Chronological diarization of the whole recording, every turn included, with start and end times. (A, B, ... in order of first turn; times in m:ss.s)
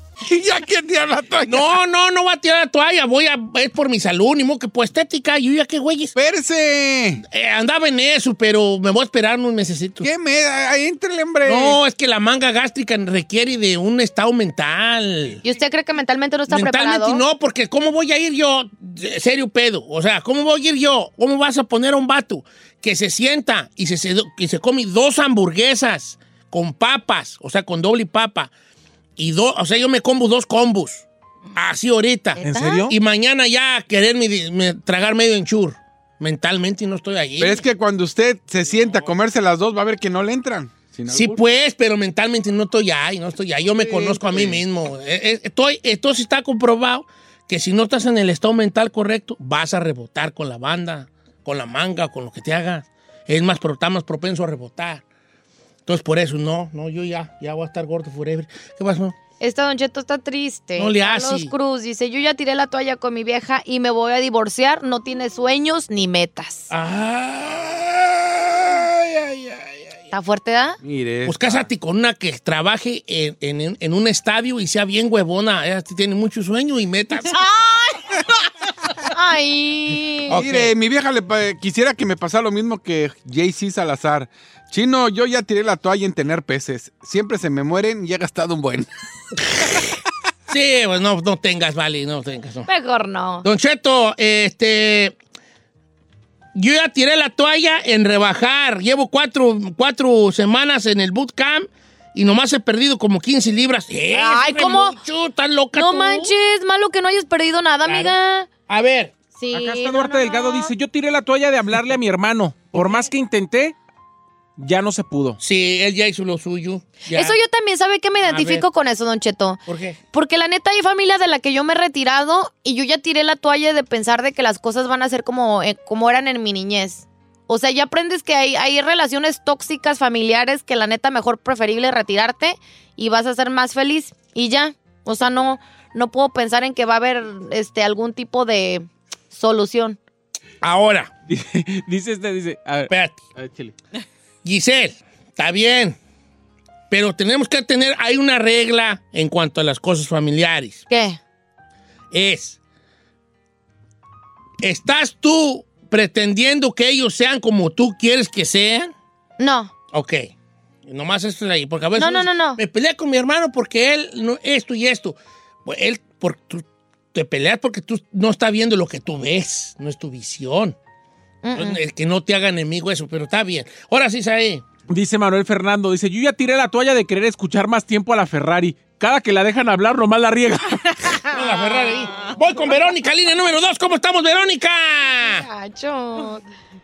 0:00.2-0:01.7 A
0:01.4-0:06.1 B
0:06.2-0:07.2 A
0:07.2-0:10.1 B
0:10.0-0:11.8 A
0:11.4-0:15.4 B
0:15.4-0:17.2 C
0:16.5-0:28.5 B
0:29.2-0:37.6 B
0:32.4-0:32.8 C
0:32.4-0:32.9 D
0:37.4-0:41.4 A
0:41.1-0:55.0 B
0:43.8-0:44.6 A
0:55.8-0:59.2 B
0:59.4-1:06.7 C
1:00.8-1:01.5 B
1:06.7-1:07.9 B
1:08.6-1:09.6 B
1:10.1-1:10.8 C
1:10.8-1:11.6 A
1:11.2-1:17.4 B
1:19.1-1:20.4 C
1:20.3-1:20.7 B
1:20.3-1:28.9 A
1:30.5-1:32.7 B
1:32.6-1:33.4 C
1:33.4-1:35.2 B
1:36.5-1:46.3 B
1:44.1-1:45.0 C
1:45.7-1:48.5 C
1:47.8-1:48.1 B
1:48.7-1:49.1 B
1:49.4-1:50.7 C
1:49.5-1:53.7 D
1:54.6-1:55.4 D
1:55.4-1:57.4 B
1:57.0-1:59.6 C
1:58.2-1:58.6 B
1:59.7-2:00.0 B
2:00.1-2:20.0 C
2:20.6-2:21.1 B
2:21.3-2:23.7 D
2:22.9-2:23.2 B
2:24.4-2:26.0 B
2:26.9-2:30.8 B
2:30.9-2:31.2 C
2:32.1-2:32.6 B
2:34.6-2:38.9 B
2:39.4-2:39.7 C
2:39.9-2:40.3 B
2:40.8-2:50.8 B
2:42.0-2:42.6 C
2:51.4-2:51.8 C
2:51.5-2:54.6 B
2:54.9-3:01.1 D
3:01.3-3:05.4 B
3:05.2-3:06.4 C